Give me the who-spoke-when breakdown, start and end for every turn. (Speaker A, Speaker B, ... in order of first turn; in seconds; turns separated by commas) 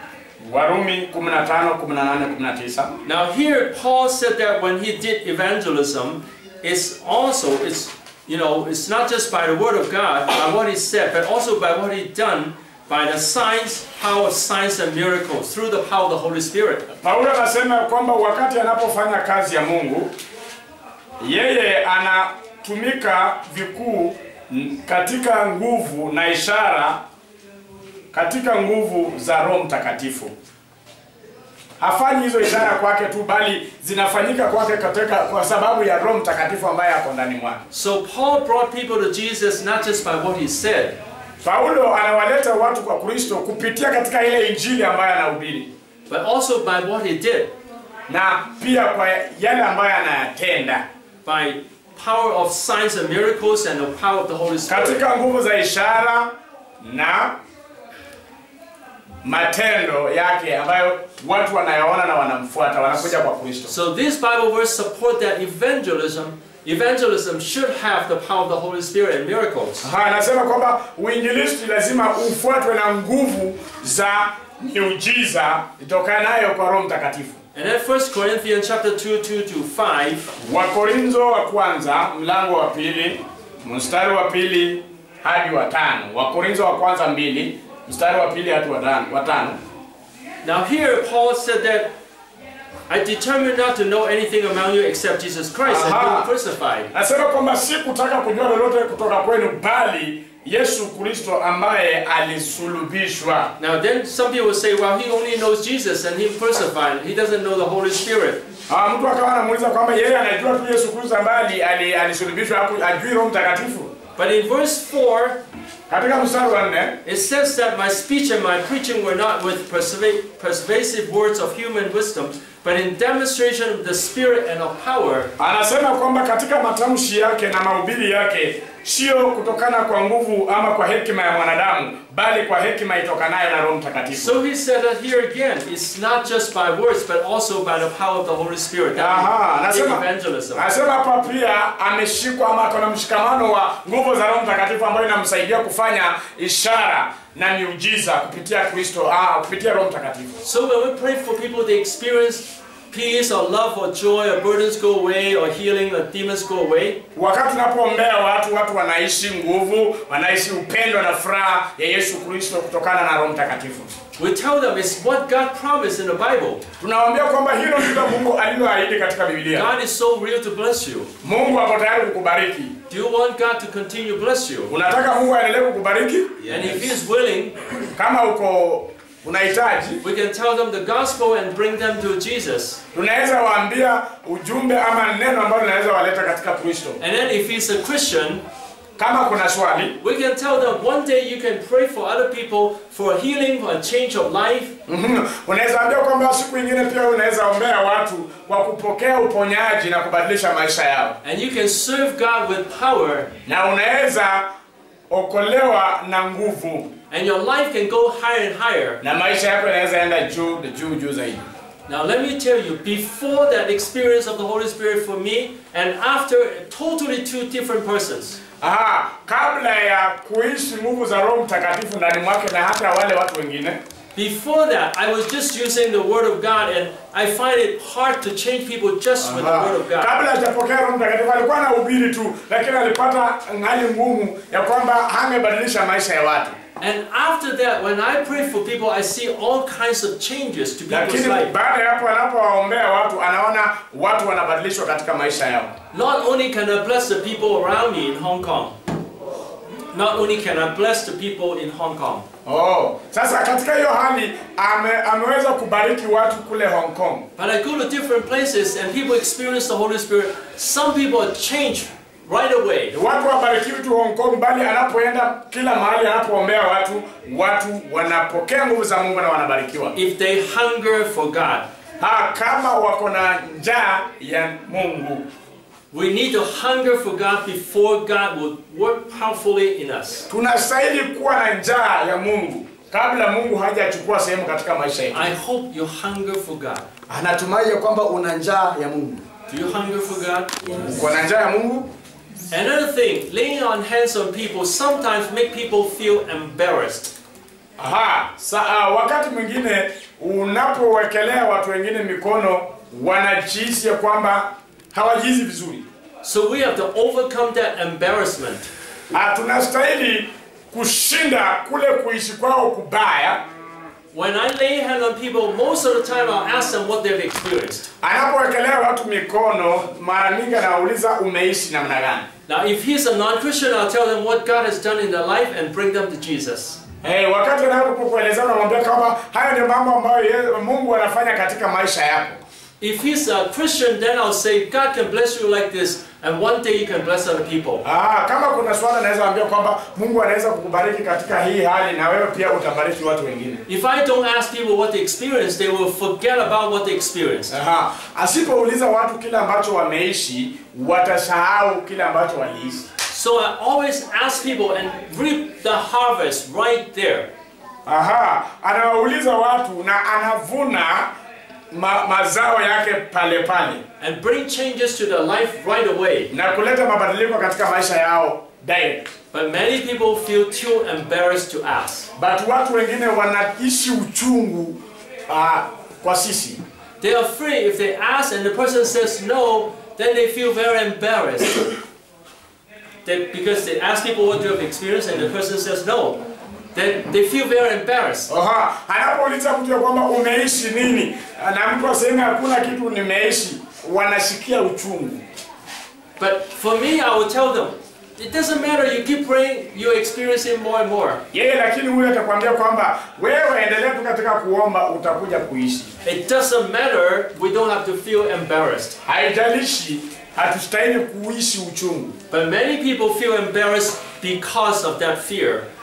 Speaker A: 0.4-2.9, Speaker B: 3.0-16.9, Speaker A: 16.9-20.1, Speaker A: 21.2-27.0, Speaker A: 28.1-30.3, Speaker A: 31.8-37.6, Speaker B: 37.7-41.0, Speaker A: 41.4-45.7, Speaker B: 46.1-47.5, Speaker A: 48.1-50.8, Speaker B: 51.2-55.0, Speaker A: 54.7-57.4, Speaker A: 59.2-63.7, Speaker B: 63.7-69.9, Speaker A: 69.8-77.4, Speaker B: 77.5-80.3, Speaker A: 80.4-89.6, Speaker B: 90.4-91.9, Speaker B: 92.9-96.9, Speaker A: 95.6-96.3, Speaker A: 96.9-103.5, Speaker B: 103.6-108.4, Speaker A: 108.7-113.9, Speaker B: 114.2-115.4, Speaker A: 115.9-117.0, Speaker B: 117.0-125.3, Speaker A: 125.4-134.4, Speaker B: 134.2-140.6, Speaker A: 138.9-150.4, Speaker B: 150.4-157.0, Speaker A: 157.1-163.9, Speaker B: 164.2-166.6, Speaker A: 166.8-169.7, Speaker B: 169.5-171.1, Speaker A: 171.2-172.7, Speaker B: 172.9-174.7, Speaker A: 174.7-176.8, Speaker B: 176.4-177.7, Speaker A: 177.9-180.0, Speaker B: 180.0-182.8, Speaker A: 182.9-187.0, Speaker B: 187.0-188.4, Speaker A: 189.0-190.0, Speaker B: 190.0-194.8, Speaker A: 194.9-201.2, Speaker B: 201.2-203.3, Speaker A: 203.4-204.4, Speaker A: 205.1-206.9, Speaker B: 207.1-209.0, Speaker A: 209.0-211.4, Speaker B: 211.9-218.4, Speaker A: 218.6-223.8, Speaker B: 224.1-230.1, Speaker A: 229.2-236.6, Speaker B: 236.8-241.5, Speaker A: 240.9-245.7, Speaker B: 245.9-248.8, Speaker B: 249.9-252.2, Speaker A: 252.4-257.2, Speaker B: 257.4-262.9, Speaker A: 262.9-269.9, Speaker B: 269.9-271.7, Speaker A: 272.0-275.2, Speaker B: 275.9-280.3, Speaker A: 280.3-285.3, Speaker B: 285.1-286.9, Speaker A: 287.1-289.2, Speaker B: 289.5-290.7, Speaker A: 290.7-291.9, Speaker B: 292.5-297.1, Speaker A: 297.8-305.9, Speaker B: 306.2-308.7, Speaker A: 309.1-313.4, Speaker B: 314.1-317.9, Speaker A: 318.0-322.3, Speaker B: 322.5-326.8, Speaker A: 327.0-332.4, Speaker B: 332.8-337.8, Speaker A: 337.8-343.6, Speaker B: 343.7-347.6, Speaker A: 347.5-352.9, Speaker B: 353.1-357.3, Speaker A: 357.9-361.1, Speaker A: 361.7-363.8, Speaker B: 364.0-366.3, Speaker A: 366.3-369.1, Speaker B: 369.3-372.1, Speaker A: 372.1-376.6, Speaker B: 377.0-381.7, Speaker B: 383.0-386.2, Speaker B: 386.7-388.3, Speaker A: 388.3-395.2, Speaker B: 396.2-401.2, Speaker A: 401.3-405.9, Speaker B: 406.0-409.0, Speaker A: 409.0-412.1, Speaker B: 412.3-415.6